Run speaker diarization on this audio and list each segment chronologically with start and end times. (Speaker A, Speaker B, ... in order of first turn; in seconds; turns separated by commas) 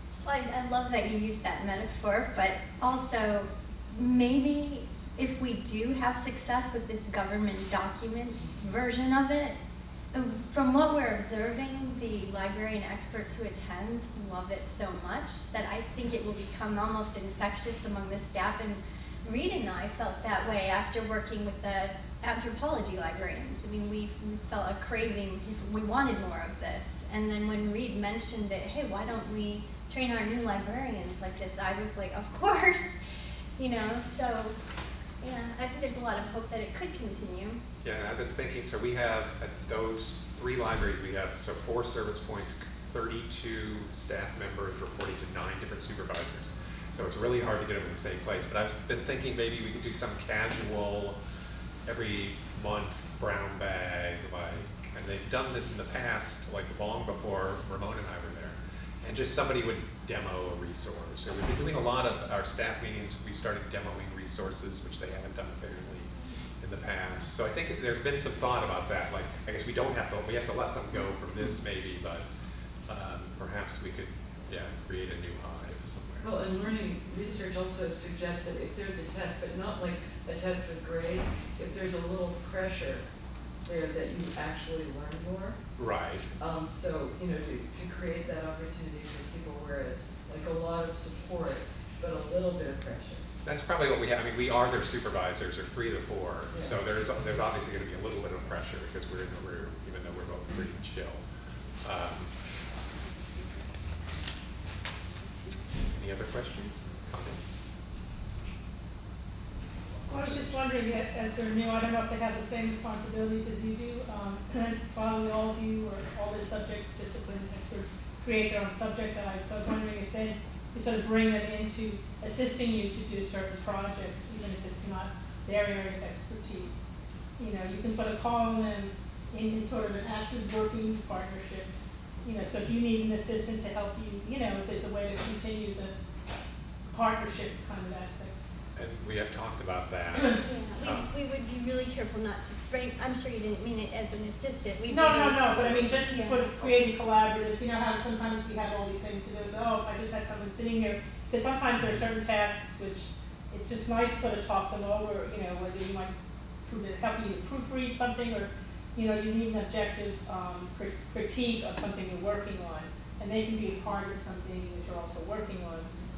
Speaker A: 0.2-9.6, Speaker A: 10.1-33.0, Speaker A: 33.6-34.5, Speaker A: 35.2-37.6, Speaker B: 37.8-51.2, Speaker B: 51.8-72.3, Speaker B: 72.8-76.3, Speaker C: 76.2-83.0, Speaker C: 83.6-85.6, Speaker B: 85.8-86.3, Speaker C: 86.4-93.2, Speaker B: 93.4-101.2, Speaker C: 96.5-96.8, Speaker B: 101.8-102.3, Speaker B: 105.8-107.5, Speaker B: 109.8-110.5, Speaker D: 110.1-126.8, Speaker D: 127.4-131.7, Speaker D: 132.2-135.9, Speaker D: 136.9-138.3, Speaker B: 138.8-141.1, Speaker A: 140.4-146.7, Speaker D: 144.9-156.1, Speaker D: 156.6-165.9